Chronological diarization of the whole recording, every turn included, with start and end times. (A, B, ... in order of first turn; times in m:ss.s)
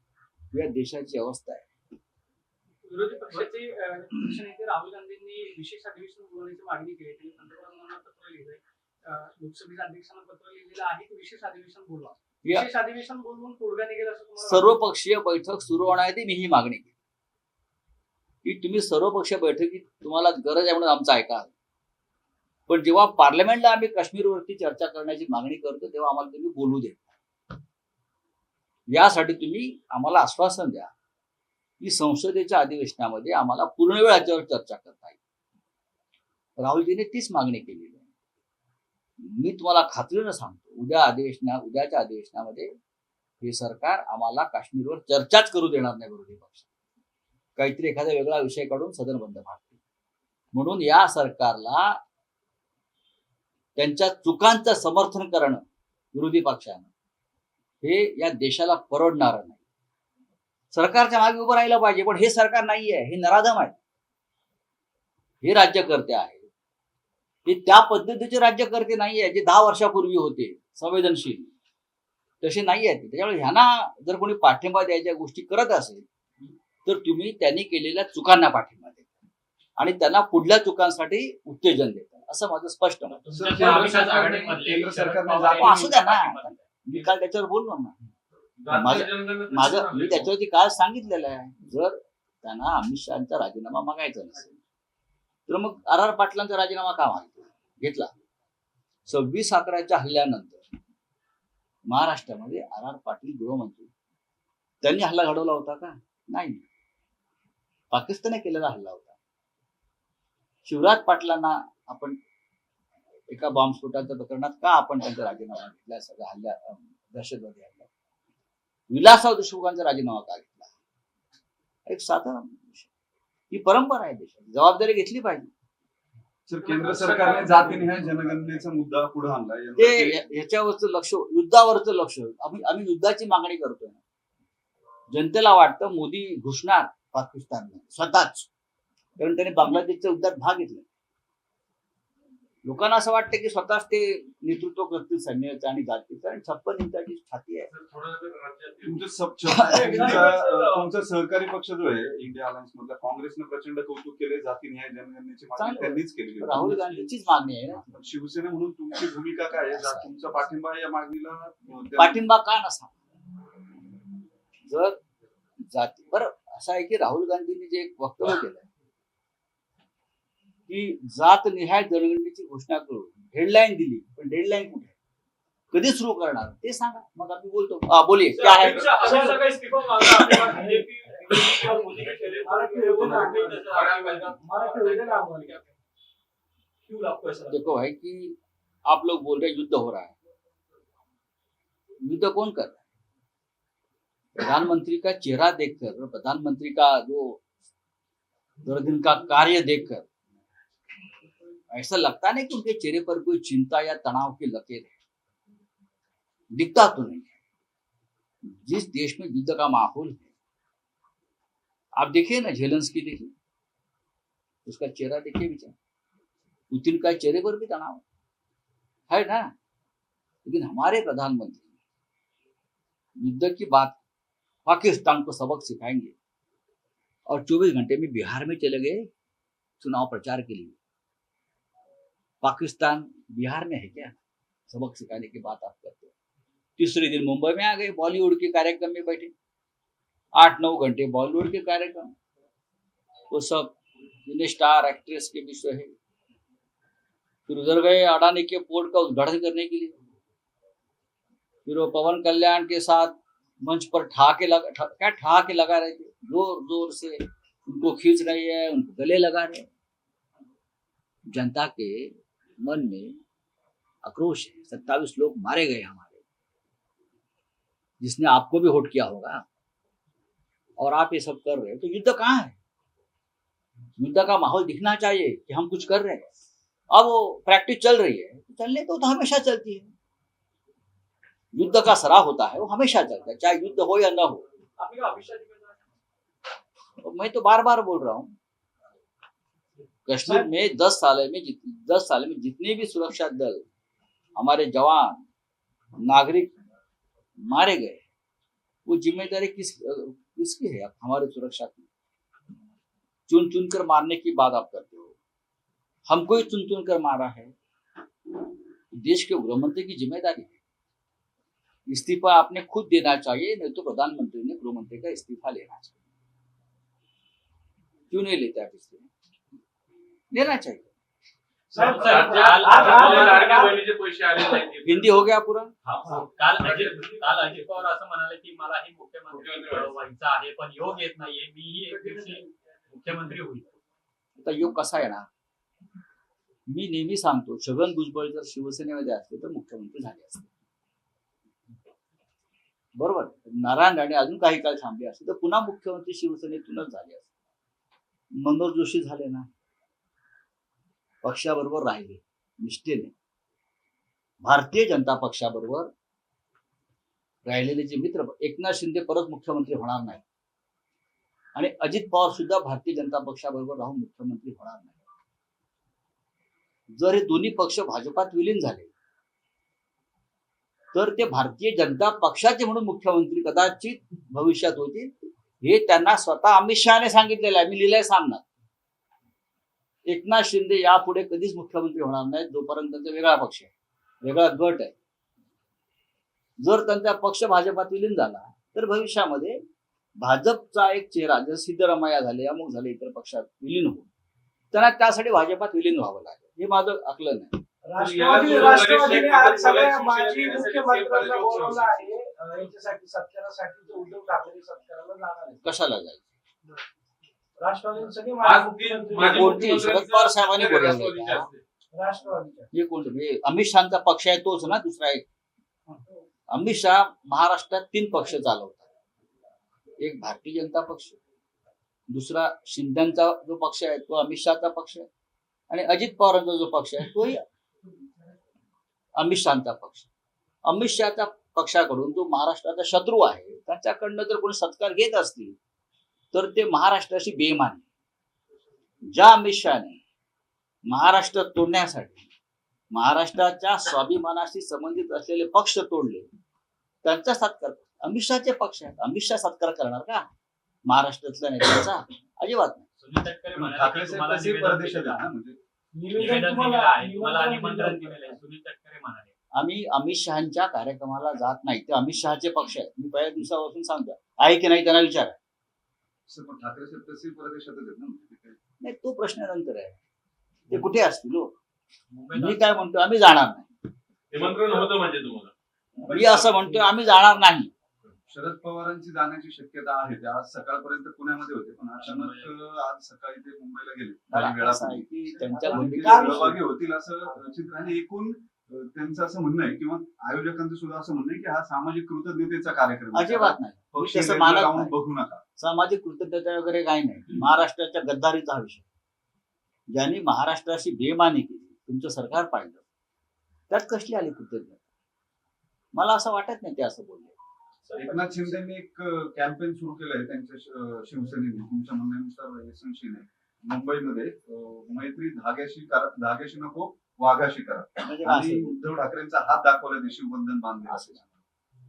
0:00.5-0:01.6 A
0:02.8-0:14.8 B
0:14.4-0:16.9 A
0:18.4-0:21.5 A
0:22.7-0:27.1 A
0:28.9-0:30.9 A
0:31.8-0:35.2 A
0:36.6-0:38.0 A
0:39.2-0:42.7 A
0:43.4-0:46.7 A
0:47.6-0:49.7 A
0:50.5-0:52.0 A
0:53.8-0:55.6 A
0:56.1-0:56.9 A
0:57.8-0:59.6 A
1:00.7-1:03.8 A
1:05.4-1:06.5 A
1:07.5-1:11.5 A
1:12.4-1:16.0 A
1:16.8-1:19.1 A
1:19.8-1:23.2 A
1:23.2-1:27.1 C
1:23.3-1:24.5 D
1:23.3-1:25.9 E
1:25.5-1:27.9 A
1:28.6-1:30.3 D
1:28.7-1:34.5 A
1:35.5-1:38.1 A
1:39.1-1:40.6 A
1:41.9-1:43.9 A
1:44.8-1:46.6 A
1:47.9-1:49.2 A
1:50.6-1:52.2 A
1:53.3-1:57.9 A
1:58.9-2:00.7 A
2:01.9-2:02.9 A
2:03.5-2:05.5 A
2:06.5-2:10.2 E
2:06.6-2:07.9 B
2:09.8-2:14.0 A
2:15.1-2:18.5 A
2:19.2-2:20.8 A
2:22.6-2:27.7 A
2:27.7-2:29.1 D
2:28.8-2:37.2 E
2:29.9-2:30.3 B
2:35.6-2:38.0 A
2:37.9-2:42.2 E
2:39.6-2:40.4 A
2:42.0-2:42.9 A
2:44.7-2:45.0 A
2:45.7-2:48.7 A
2:50.7-2:54.9 A
2:55.7-2:59.0 A
2:58.4-3:05.7 C
2:58.6-2:59.4 D
2:59.0-2:59.4 F
3:01.2-3:02.3 B
3:01.3-3:04.5 D
3:02.5-3:03.5 F
3:04.5-3:05.6 F
3:06.9-3:07.6 C
3:07.5-3:10.2 A
3:12.0-3:12.8 A
3:14.4-3:17.4 A
3:18.6-3:20.0 A
3:21.7-3:24.9 A
3:26.6-3:27.3 A
3:28.4-3:30.3 A
3:32.0-3:33.3 A
3:34.7-3:35.7 A
3:36.7-3:38.0 A
3:39.1-3:39.5 A
3:40.4-3:41.7 A
3:43.2-3:44.0 A
3:44.7-3:46.1 A
3:47.3-3:49.1 A
3:49.8-3:50.8 A
3:52.4-3:54.2 A
3:54.7-3:56.1 A
3:56.8-3:59.3 A
4:00.4-4:02.1 A
4:03.3-4:05.9 A
4:07.5-4:10.0 A
4:11.7-4:19.7 A
4:21.3-4:23.2 A
4:24.0-4:26.2 A
4:28.0-4:29.4 A
4:30.8-4:32.6 A
4:34.0-4:36.2 A
4:36.9-4:39.9 A
4:41.5-4:44.4 A
4:44.8-4:45.8 B
4:47.0-4:48.3 A
4:50.1-4:53.6 A
4:54.4-4:55.2 A
4:56.0-4:56.5 A
4:57.4-4:58.0 A
4:58.9-5:01.9 A
5:03.3-5:05.2 A
5:06.1-5:07.5 A
5:08.9-5:10.6 A
5:11.9-5:16.0 A
5:18.1-5:19.1 A
5:20.3-5:20.9 A
5:21.7-5:25.2 D
5:21.8-5:23.8 F
5:21.8-5:23.8 C
5:23.0-5:23.4 E
5:24.8-5:25.7 A
5:25.8-5:27.1 D
5:26.1-5:33.7 C
5:29.3-5:30.0 D
5:34.4-5:35.3 A
5:36.7-5:40.5 A
5:43.0-5:47.3 A
5:48.4-5:49.5 A
5:51.2-5:53.1 A
5:54.4-5:55.9 A
5:57.5-6:00.2 A
6:01.6-6:05.0 A
6:06.9-6:08.9 A
6:10.9-6:18.4 A
6:20.1-6:23.7 A
6:24.2-6:24.9 A
6:26.6-6:29.6 A
6:30.2-6:34.1 A
6:34.7-6:37.6 A
6:37.8-6:45.7 F
6:38.0-6:42.2 D
6:45.6-6:46.2 A
6:47.6-6:49.5 F
6:48.4-6:51.6 D
6:49.2-6:51.5 A
6:51.9-6:52.7 F
6:52.7-6:55.2 A
6:56.5-6:58.9 A
7:00.0-7:01.2 A
7:02.1-7:05.1 A
7:05.7-7:07.4 A
7:09.2-7:10.1 A
7:10.7-7:15.6 A
7:16.3-7:17.8 A
7:19.1-7:20.0 A
7:20.9-7:22.3 A
7:22.9-7:26.3 A
7:27.0-7:30.3 A
7:30.9-7:32.9 A
7:33.0-7:35.3 C
7:33.5-7:35.6 E
7:35.9-7:38.4 F
7:36.1-7:39.3 C
7:36.9-7:37.4 E
7:39.6-7:45.4 A
7:46.3-7:48.6 E
7:48.8-7:50.0 A
7:50.7-7:51.5 A
7:52.1-7:52.7 C
7:52.3-7:53.7 A
7:54.3-7:55.5 D
7:56.0-7:56.9 E
7:56.1-7:57.7 A
7:58.3-8:15.4 E
8:02.0-8:02.6 C
8:04.3-8:06.6 A
8:13.1-8:14.9 A
8:15.6-8:18.8 A
8:19.9-8:22.8 A
8:23.7-8:24.8 A
8:26.0-8:27.4 A
8:27.9-8:28.5 C
8:28.0-8:41.2 E
8:38.0-8:38.8 A
8:40.9-8:41.2 A